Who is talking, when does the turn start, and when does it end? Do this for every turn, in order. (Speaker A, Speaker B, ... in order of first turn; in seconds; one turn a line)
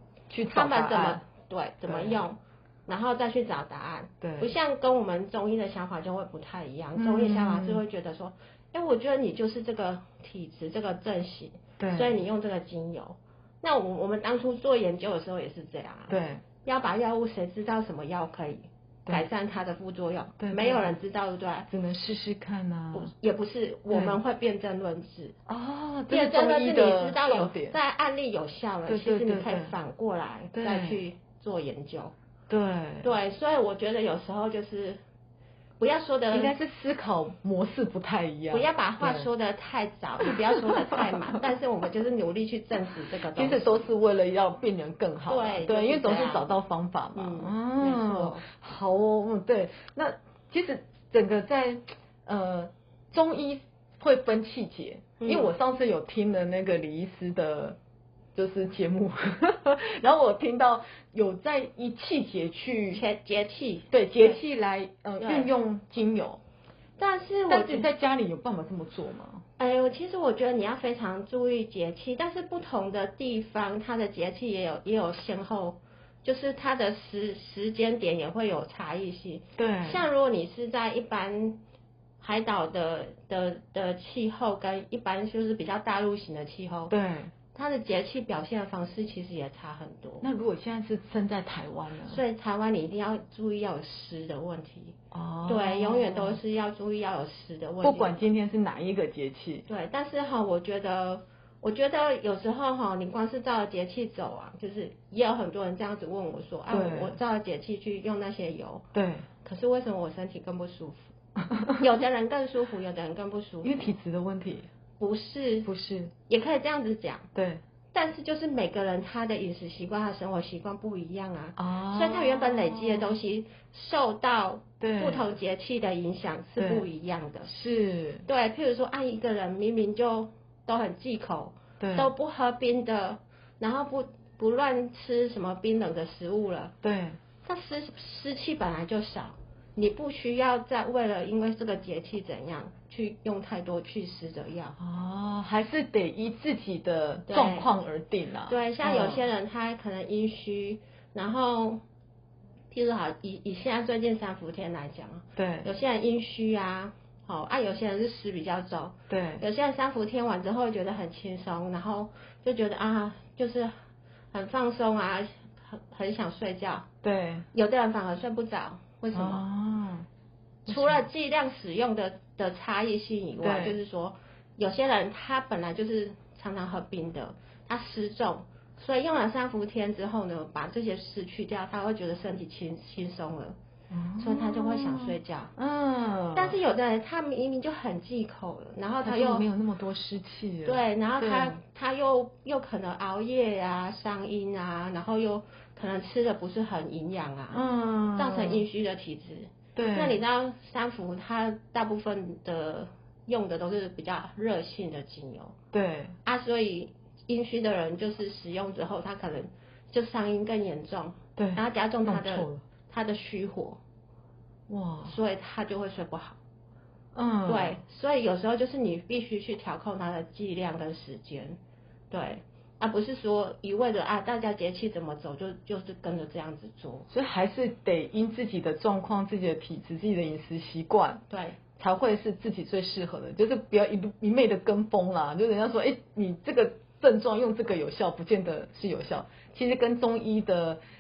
Speaker A: 0.3-1.2
Speaker B: 0.5-21.7
Speaker A: 1.9-2.2
Speaker A: 4.2-4.5
Speaker A: 7.0-7.8
Speaker A: 11.8-12.2
Speaker A: 16.1-16.4
Speaker A: 20.4-20.9
Speaker A: 21.7-23.1
Speaker B: 22.9-25.4
Speaker A: 23.9-24.2
Speaker A: 25.5-27.8
Speaker B: 26.1-32.1
Speaker A: 28.9-29.7
Speaker A: 30.5-31.0
Speaker A: 32.5-33.1
Speaker B: 33.0-35.0
Speaker B: 35.8-36.5
Speaker A: 36.3-39.3
Speaker B: 38.5-43.9
Speaker A: 40.2-41.0
Speaker A: 43.3-57.8
Speaker B: 45.3-46.5
Speaker B: 47.1-48.4
Speaker B: 55.2-55.5
Speaker A: 58.4-63.0
Speaker B: 62.9-64.4
Speaker A: 63.9-66.4
Speaker B: 65.2-65.5
Speaker B: 67.0-67.9
Speaker A: 67.5-69.4
Speaker B: 69.6-81.6
Speaker A: 79.6-80.0
Speaker B: 82.2-86.9
Speaker A: 86.9-87.3
Speaker B: 87.5-90.3
Speaker A: 90.2-92.2
Speaker B: 92.1-98.2
Speaker A: 95.1-96.4
Speaker A: 97.8-99.7
Speaker B: 99.7-108.8
Speaker A: 106.7-107.2
Speaker A: 108.9-109.3
Speaker B: 109.4-111.1
Speaker B: 111.8-113.9
Speaker A: 113.6-114.7
Speaker B: 115.0-115.7
Speaker A: 115.6-116.1
Speaker B: 116.3-117.3
Speaker A: 117.3-117.6
Speaker B: 117.9-127.5
Speaker A: 121.6-123.2
Speaker A: 124.8-125.3
Speaker A: 126.6-126.9
Speaker A: 127.5-128.2
Speaker B: 128.2-136.7
Speaker A: 131.8-132.1
Speaker A: 136.8-137.2
Speaker B: 137.4-144.8
Speaker A: 144.8-149.2
Speaker B: 147.3-147.7
Speaker B: 148.5-151.8
Speaker B: 152.7-163.7
Speaker A: 155.4-155.7
Speaker A: 159.1-159.4
Speaker B: 164.3-166.9
Speaker A: 167.0-167.4
Speaker B: 167.5-169.4
Speaker A: 169.1-170.1
Speaker B: 170.7-183.6
Speaker A: 170.7-171.0
Speaker A: 173.4-173.8
Speaker A: 183.9-186.6
Speaker B: 184.2-185.5
Speaker B: 186.3-189.4
Speaker A: 189.0-191.6
Speaker B: 190.6-197.6
Speaker A: 197.5-198.6
Speaker B: 198.1-205.6
Speaker A: 199.8-200.2
Speaker A: 205.7-206.1
Speaker B: 206.2-213.8
Speaker A: 211.4-212.6
Speaker A: 214.7-215.2
Speaker B: 215.1-216.4
Speaker A: 217.1-217.8
Speaker B: 217.4-221.6
Speaker B: 222.1-227.1
Speaker A: 227.1-231.2
Speaker B: 231.3-231.6
Speaker A: 231.8-240.8